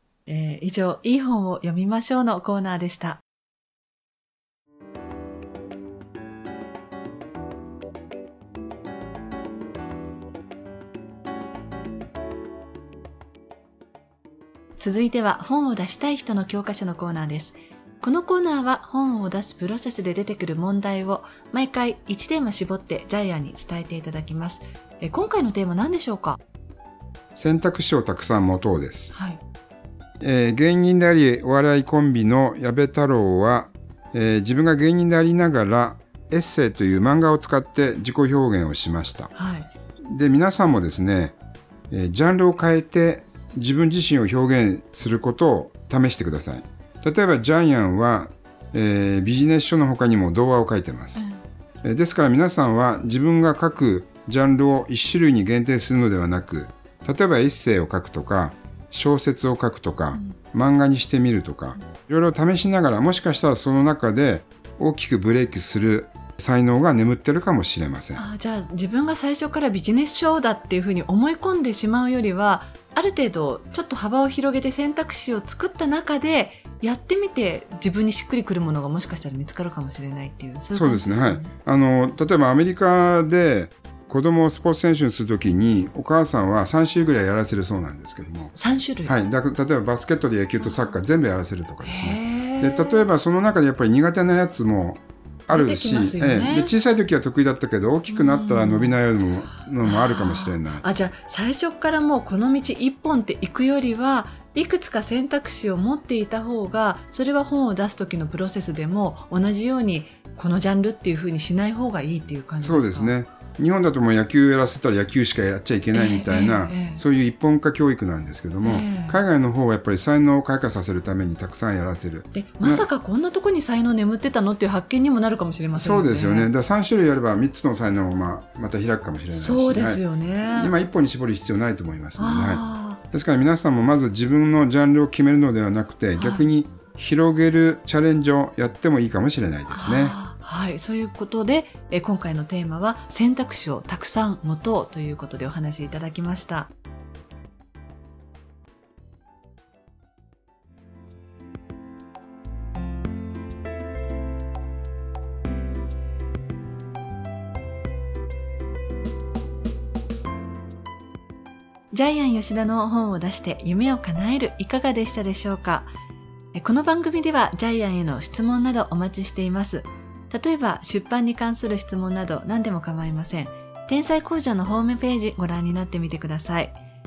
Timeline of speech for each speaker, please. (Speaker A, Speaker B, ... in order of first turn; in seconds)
Speaker A: 0.2-3.2, 14.8-26.4, 29.1-29.4, 39.3-39.7, 68.1-81.5, 88.5-89.1, 91.8-93.1, 95.5-96.7, 98.1-99.0, 99.8-113.1, 115.9-117.0, 118.6-119.2, 122.3-126.5, 129.3-130.7, 132.2-133.0, 136.2-136.5, 139.7-146.7, 161.9-165.9, 166.5-176.8
Speaker B: 27.3-29.2, 30.2-39.3, 40.1-41.3, 41.9-51.2, 51.8-68.2, 80.7-88.5, 89.0-100.8, 112.6-122.8, 125.7-140.2